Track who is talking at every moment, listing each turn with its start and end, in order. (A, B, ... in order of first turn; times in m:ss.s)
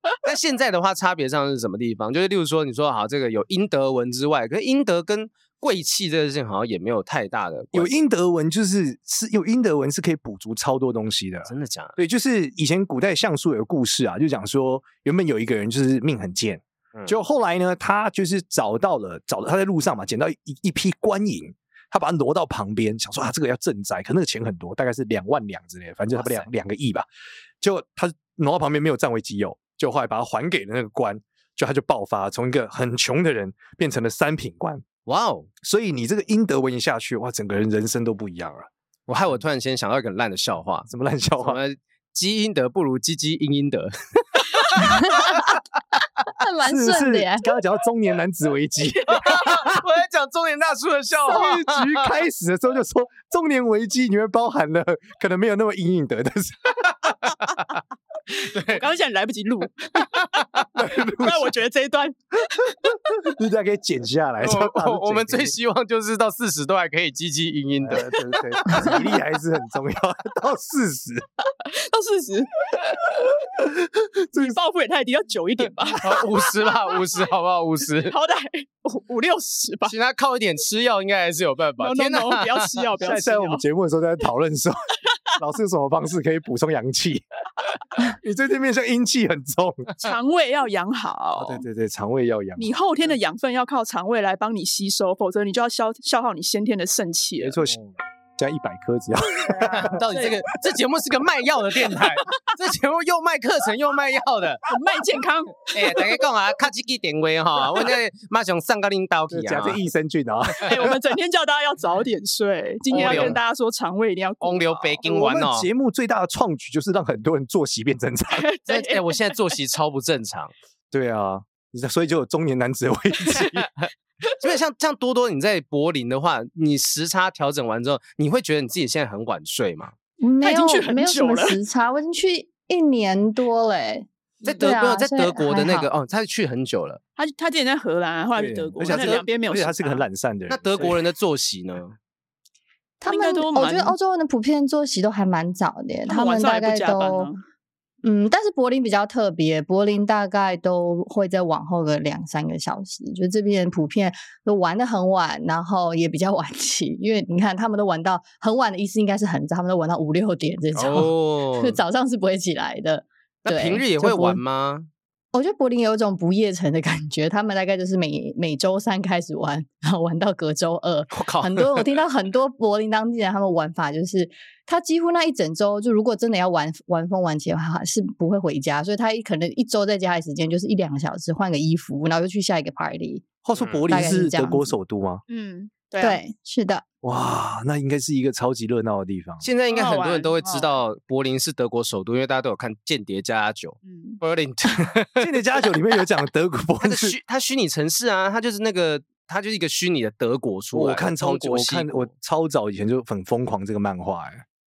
0:00.2-0:07.9 A
0:07.7-0:27.0 B
0:11.4-0:12.0 A
0:26.1-0:26.5 A
0:27.6-0:34.8 B
0:35.0-0:35.5 A
0:35.6-0:38.7 B
0:39.1-0:45.4 A
0:40.9-0:41.6 B
0:46.4-0:47.5 C
0:46.6-0:49.8 B
0:49.1-0:52.1 A
0:51.2-0:57.1 B
0:58.4-0:58.8 A
0:58.6-1:00.4 D
1:00.8-1:01.5 B
1:01.0-1:02.9 D
1:02.8-1:05.5 B
1:04.4-1:08.4 A
1:07.8-1:11.2 B
1:08.6-1:09.0 D
1:11.6-1:13.2 D
1:13.4-1:14.6 B
1:14.3-1:16.4 D
1:16.0-1:18.2 A
1:18.0-1:19.9 D
1:19.9-1:22.9 A
1:21.8-1:23.6 D
1:23.0-1:24.8 B
1:25.4-1:27.2 B
1:27.9-1:29.9 B
1:30.0-1:31.6 D
1:31.4-1:32.8 B
1:32.6-1:37.6 D
1:37.4-1:39.9 B
1:39.5-1:40.4 D
1:39.6-1:44.6 A
1:44.6-1:46.1 D
1:45.7-1:49.8 A
1:49.3-1:51.0 B
1:50.6-1:55.0 D
1:52.9-1:53.4 A
1:52.9-1:53.4 B
1:54.4-1:55.7 A
1:55.0-1:58.5 B
1:58.3-1:59.1 D
1:58.7-2:00.5 A
2:00.9-2:03.7 B
2:03.4-2:09.9 A
2:10.2-2:15.9 C
2:10.4-2:11.6 D
2:14.4-2:17.0 A
2:14.4-2:14.7 D
2:17.2-2:20.0 D
2:18.4-2:20.9 B
2:18.9-2:19.2 A
2:20.5-2:22.0 A
2:23.0-2:27.3 C
2:23.0-2:24.0 D
2:26.1-2:27.4 D
2:28.0-2:44.4 C
2:40.8-2:41.8 A
2:43.4-2:44.9 A
2:45.3-3:03.2 C
2:51.1-2:51.9 A
3:03.4-3:05.2 B
3:03.6-3:03.8 A
3:03.9-3:04.8 C
3:05.3-3:06.3 D
3:06.0-3:06.8 C
3:07.0-3:09.4 B
3:09.4-3:15.3 A
3:09.7-3:10.7 D
3:13.8-3:14.2 D
3:15.2-3:17.1 B
3:16.8-3:22.1 A
3:20.7-3:24.4 B